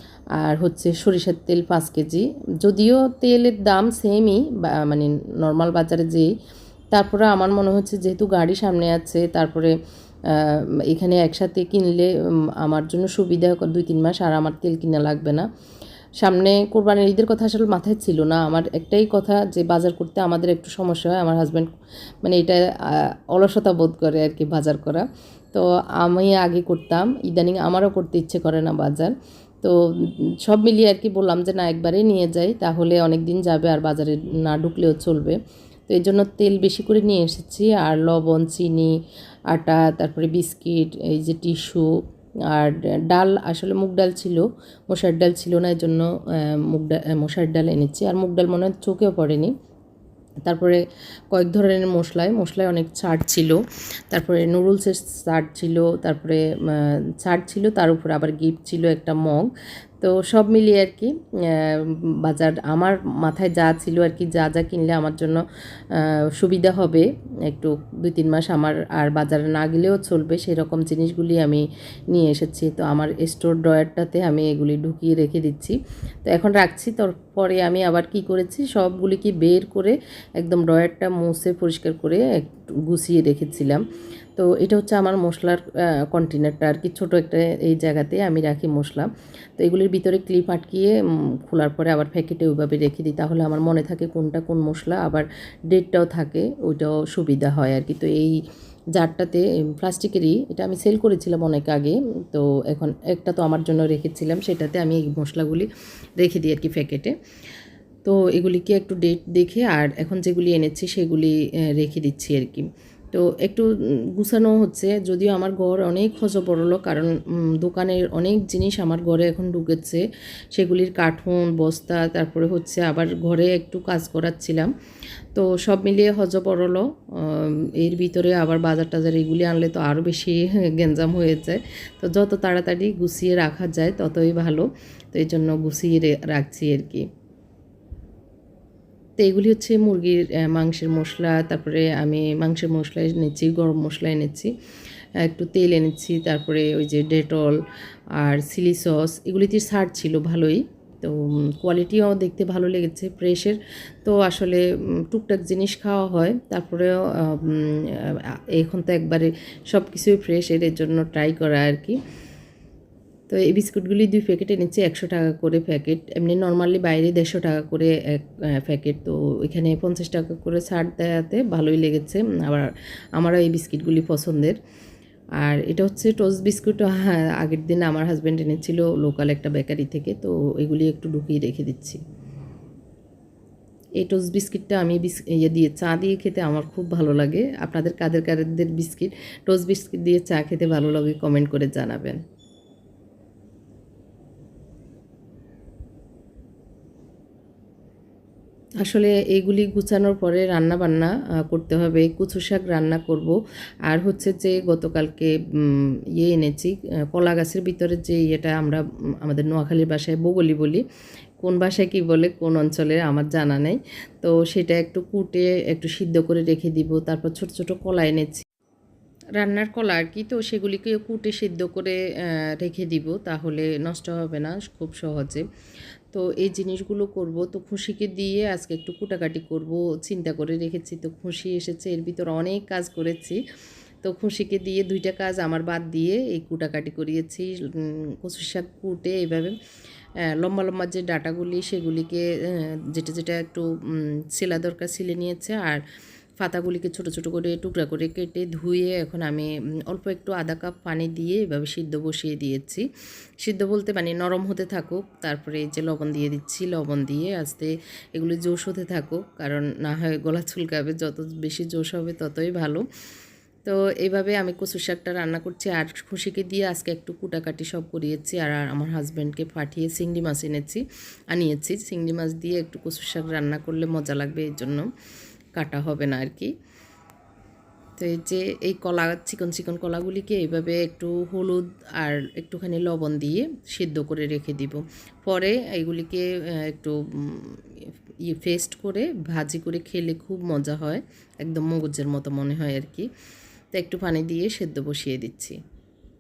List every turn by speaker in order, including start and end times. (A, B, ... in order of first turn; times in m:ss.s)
0:00.4-0:06.3 A
0:06.9-0:09.7 A
0:10.3-0:12.1 A
0:12.6-0:15.5 A
0:16.2-0:21.7 A
0:22.2-0:35.4 A
0:35.9-0:38.9 A
0:39.5-0:41.9 A
0:42.5-0:49.5 A
0:50.5-0:50.8 A
0:51.3-0:53.6 A
0:54.1-0:59.5 A
1:00.0-1:05.4 A
1:05.9-1:22.2 A
1:22.9-1:23.8 A
1:24.4-1:31.0 A
1:31.5-1:38.4 A
1:39.0-1:47.1 A
1:48.1-2:00.0 A
2:00.6-2:04.7 A
2:05.3-2:17.1 A
2:19.2-2:24.5 A
2:25.2-2:27.6 A
2:28.2-2:42.0 A
2:43.3-2:54.6 A
2:55.4-3:02.0 A
3:04.0-3:12.2 A
3:18.8-3:30.8 A
3:31.4-3:38.4 A
3:39.4-3:45.4 A
3:46.1-3:53.4 A
3:54.0-3:59.6 A
4:00.3-4:05.8 A
4:06.4-4:12.9 A
4:13.4-4:22.8 A
4:23.7-4:34.9 A
4:35.6-4:36.5 A
4:38.0-4:47.6 A
4:48.3-4:53.1 A
4:53.7-4:55.6 A